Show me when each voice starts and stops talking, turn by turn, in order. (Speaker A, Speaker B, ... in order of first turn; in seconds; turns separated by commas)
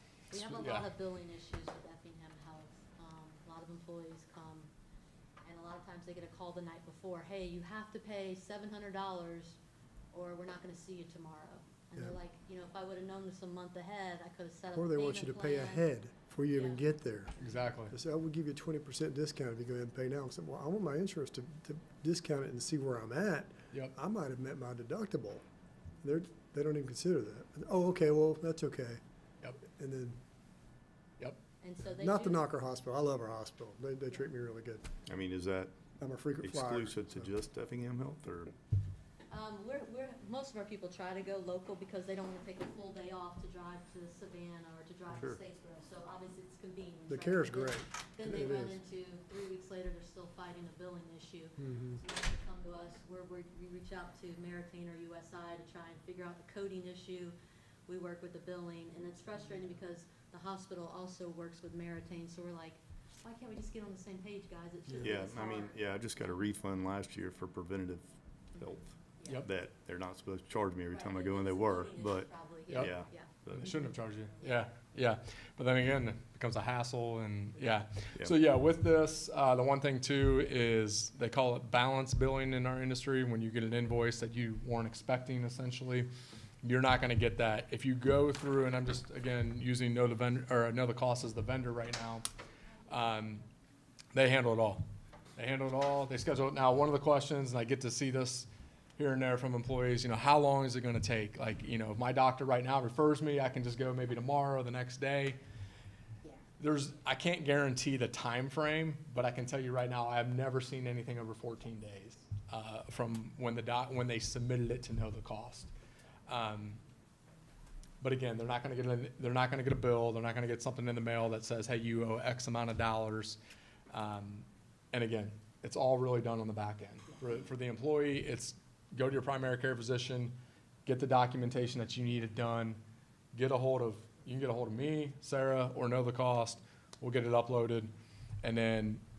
Speaker A: 0.3-4.7, Speaker B: 0.3-0.9, Speaker A: 5.4-9.6, Speaker A: 10.1-15.9, Speaker C: 14.8-17.3, Speaker A: 16.5-17.7, Speaker B: 17.4-17.9, Speaker C: 17.9-25.4, Speaker C: 26.0-29.0, Speaker C: 29.7-30.2, Speaker A: 31.6-32.4, Speaker C: 31.9-34.9, Speaker D: 35.1-35.8, Speaker C: 36.0-37.3, Speaker D: 36.4-38.5, Speaker A: 39.3-57.4, Speaker C: 47.1-48.8, Speaker C: 51.6-52.0, Speaker A: 57.9-66.4, Speaker D: 65.0-73.8, Speaker A: 68.5-69.4, Speaker A: 70.9-73.3, Speaker B: 72.7-72.9, Speaker B: 73.5-86.1, Speaker B: 86.6-92.2, Speaker B: 92.9-93.4, Speaker B: 94.1-105.4, Speaker B: 106.6-115.7, Speaker B: 116.3-116.8, Speaker B: 118.0-123.4, Speaker B: 123.9-132.8, Speaker B: 133.3-137.9, Speaker B: 138.4-139.0